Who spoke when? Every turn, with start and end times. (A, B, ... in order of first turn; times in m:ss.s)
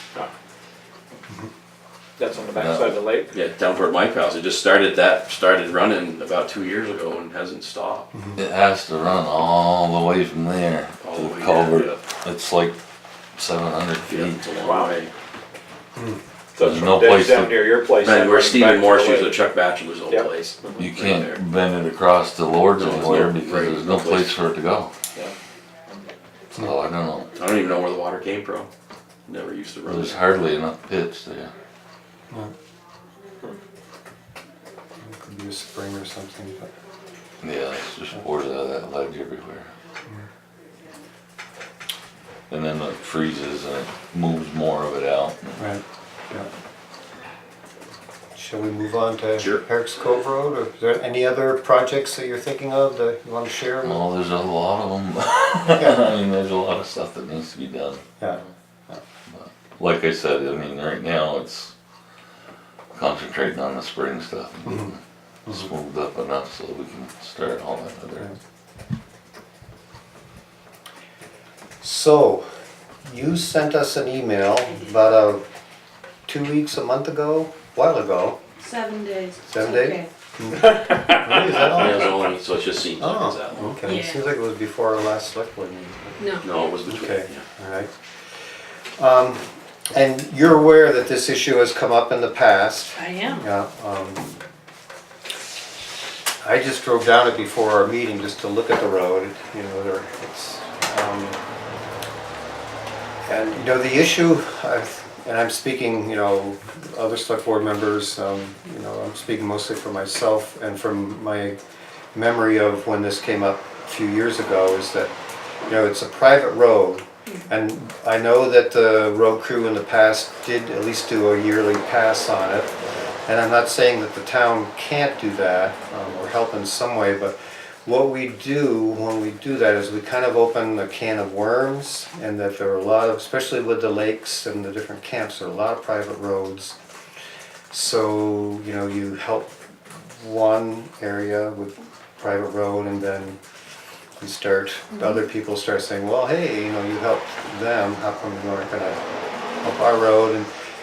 0:02.2-0:03.3 A
0:02.5-0:03.0 B
0:03.3-0:08.1 C
0:08.1-0:08.4 D
0:08.4-0:12.8 B
0:11.0-0:12.0 C
0:13.4-0:14.4 B
0:14.0-0:15.1 C
0:14.6-0:14.9 A
0:16.6-0:19.4 A
0:16.6-0:17.7 B
0:18.0-0:21.4 C
0:20.1-0:20.8 A
0:20.8-0:24.9 B
0:22.7-0:24.4 C
0:26.6-0:27.3 B
0:27.3-0:28.7 C
0:29.3-0:30.2 C
0:29.8-0:31.5 B
0:35.0-0:36.7 D
0:37.4-0:39.7 B
0:42.5-0:45.6 B
0:45.6-0:46.5 D
0:48.3-0:54.0 D
0:49.4-0:49.6 C
0:53.8-0:58.0 B
0:55.7-0:56.1 D
0:58.2-0:59.0 D
0:59.3-1:01.7 B
1:02.9-1:08.3 B
1:04.6-1:04.9 D
1:11.8-1:12.4 D
1:13.0-1:15.4 D
1:16.3-1:18.4 D
1:18.6-1:20.1 E
1:19.5-1:22.2 D
1:20.6-1:22.0 A
1:21.7-1:23.8 C
1:23.0-1:26.2 D
1:23.8-1:24.2 E
1:26.2-1:26.4 E
1:26.4-1:27.4 C
1:26.8-1:27.9 D
1:29.0-1:34.4 D
1:33.0-1:33.5 E
1:36.4-1:41.4 D
1:43.2-1:51.6 D
1:52.1-1:55.1 D
1:55.6-2:02.7 D
2:03.2-2:16.8 D
2:17.7-2:23.4 D
2:24.2-2:29.0 D
2:29.6-2:30.5 D